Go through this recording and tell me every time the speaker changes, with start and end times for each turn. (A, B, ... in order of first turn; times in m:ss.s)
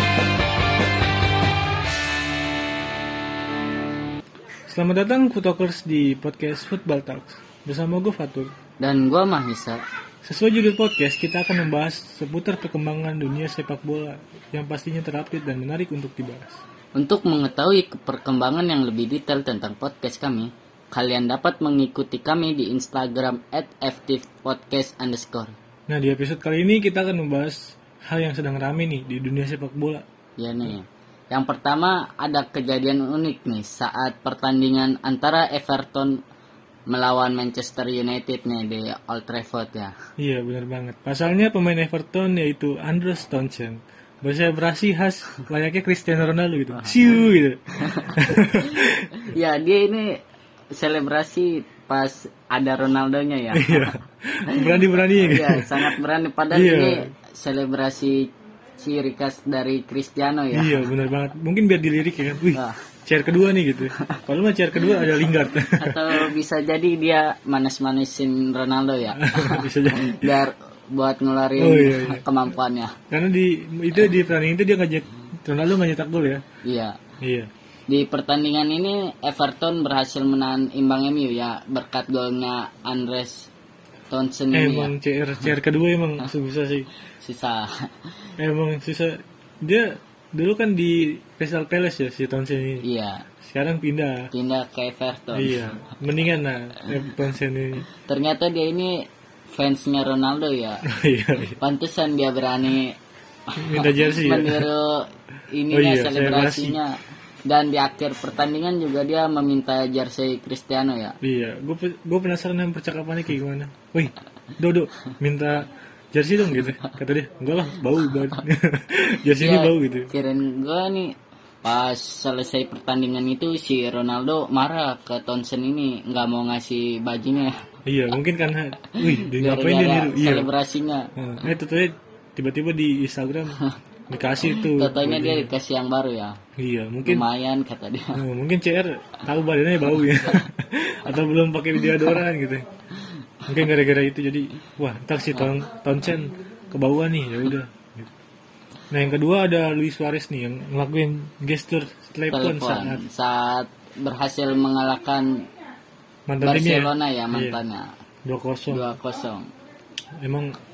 0:04.7-0:08.5 A
0:08.8-0:09.8 B
0:10.2-0:16.6 A
0:17.0-0:25.6 B
0:25.9-0:30.0 A
0:30.4-0:36.2 B
0:36.9-0:39.9 B
0:40.2-0:49.3 A
0:46.7-0:47.2 B
0:47.7-0:50.2 B
0:50.7-1:00.9 B
0:53.5-0:56.0 A
0:56.5-0:57.1 A
1:00.5-1:06.3 A
1:02.5-1:02.8 B
1:04.0-1:04.2 B
1:05.7-1:13.0 B
1:09.2-1:10.4 A
1:11.6-1:12.2 A
1:13.1-1:16.4 A
1:16.6-1:17.0 B
1:17.2-1:17.5 A
1:17.9-1:23.5 B
1:24.1-1:24.9 B
1:24.5-1:26.9 A
1:27.2-1:28.1 B
1:28.4-1:32.9 A
1:32.8-1:33.3 B
1:33.4-1:34.3 A
1:34.3-1:35.7 B
1:35.4-1:37.9 A
1:38.0-1:40.9 B
1:40.9-1:41.6 A
1:41.6-1:43.0 B
1:43.5-1:51.2 B
1:43.6-1:44.7 A
1:45.7-1:46.8 A
1:51.2-2:00.1 A
1:59.4-2:07.6 B
2:07.9-2:10.5 A
2:08.9-2:11.1 B
2:11.2-2:15.5 A
2:14.4-2:16.4 B
2:16.6-2:17.3 A
2:17.0-2:18.2 B
2:18.2-2:22.6 A
2:23.5-2:28.1 A
2:28.9-2:33.0 A
2:32.3-2:35.5 B
2:36.3-2:37.6 A
2:36.4-2:37.9 B
2:38.2-2:38.9 A
2:38.7-2:39.5 B
2:40.2-2:40.6 A